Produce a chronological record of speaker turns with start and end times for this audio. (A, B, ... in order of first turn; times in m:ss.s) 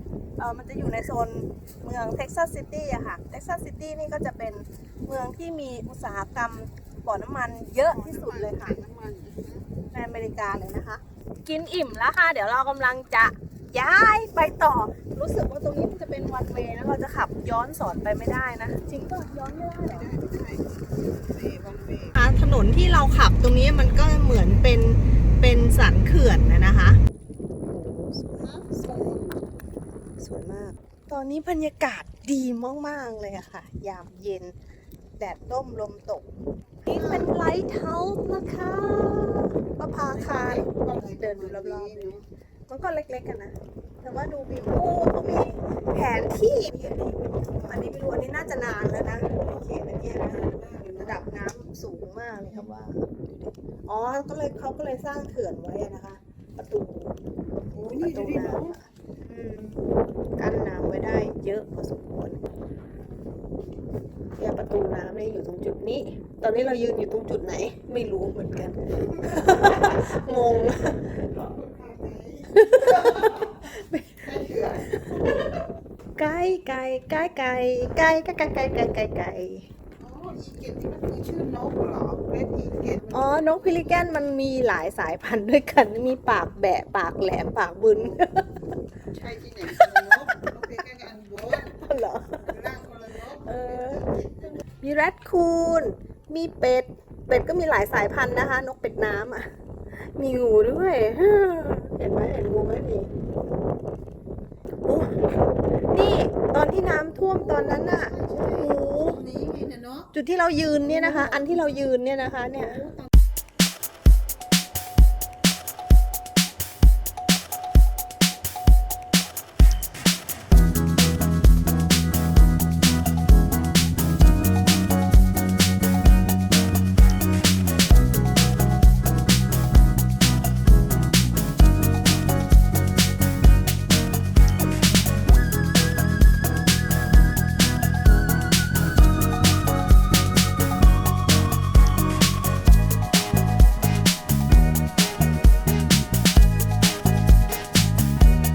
0:00.4-0:08.8 A
0:07.9-0:09.7 B
0:09.9-0:20.1 A
0:19.9-0:20.6 B
0:21.2-0:22.2 B
0:22.1-0:27.0 A
0:27.6-0:29.2 A
0:30.2-0:34.5 A
0:35.2-0:36.3 A
0:36.8-0:42.1 A
0:37.0-0:37.3 B
0:40.1-0:42.2 B
0:42.7-0:57.2 A
0:50.4-0:51.2 B
0:57.7-0:58.7 B
0:57.9-0:59.8 A
1:00.4-1:02.4 A
1:04.4-1:11.1 A
1:11.3-1:13.3 B
1:12.5-1:14.3 A
1:14.2-1:15.0 B
1:16.2-1:19.7 A
1:20.0-1:23.9 B
1:23.1-1:28.5 A
1:29.1-1:31.7 B
1:31.5-1:32.5 A
1:32.5-1:34.6 B
1:33.4-1:34.1 A
1:34.7-1:39.5 A
1:40.0-1:43.1 A
1:44.8-1:45.2 A
1:45.9-1:49.2 A
1:47.4-1:50.1 B
1:50.1-1:52.9 A
1:50.9-1:51.6 B